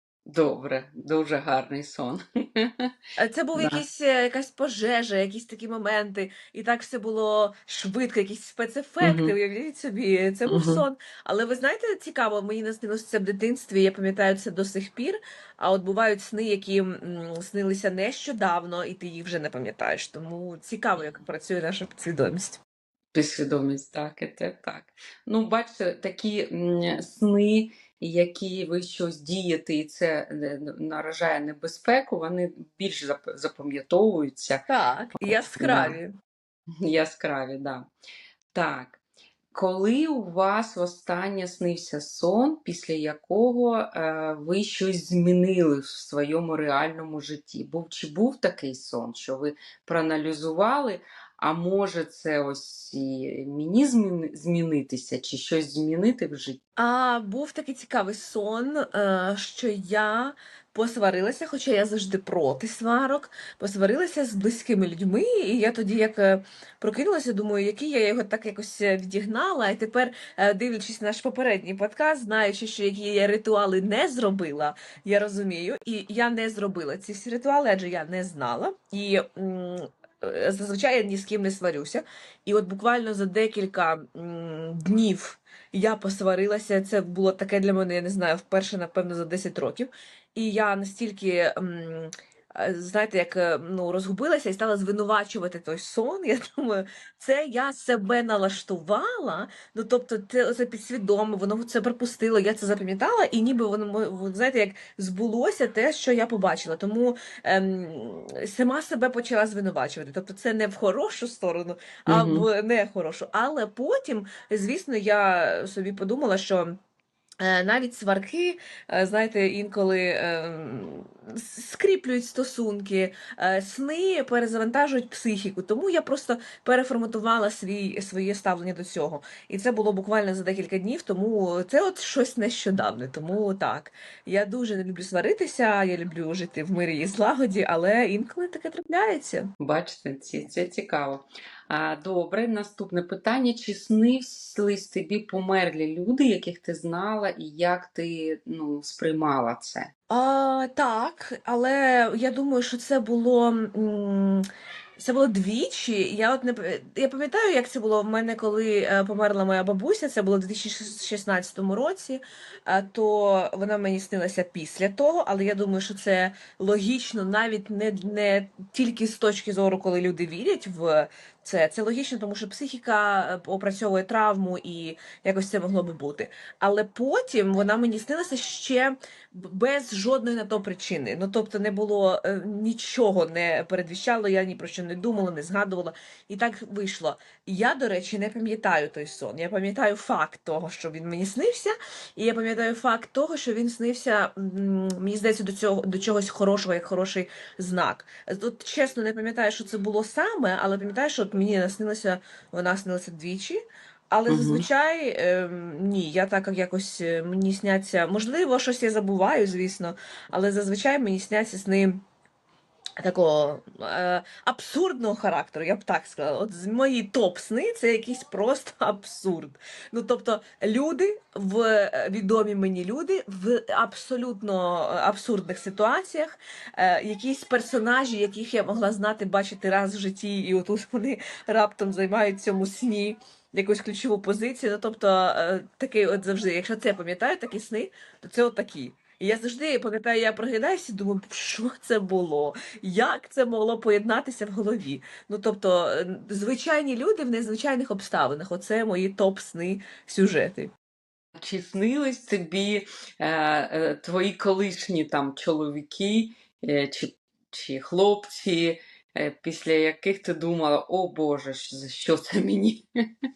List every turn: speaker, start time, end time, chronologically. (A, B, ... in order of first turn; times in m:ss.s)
0:00.3-0:02.9 A
0:03.2-0:22.6 B
0:03.6-0:03.8 A
0:09.0-0:09.3 A
0:10.5-0:10.8 A
0:23.1-0:36.0 A
0:34.7-0:36.1 B
0:36.8-0:37.9 A
0:38.5-0:39.0 A
0:39.5-0:56.6 A
0:56.8-1:56.8 B
1:52.1-1:52.5 A
1:57.4-2:19.5 B
2:19.6-2:29.9 A
2:30.1-2:34.5 B
2:35.0-3:23.6 B
3:24.1-3:32.0 B
3:24.3-3:24.7 A
3:33.0-4:10.7 B
4:11.4-4:22.8 A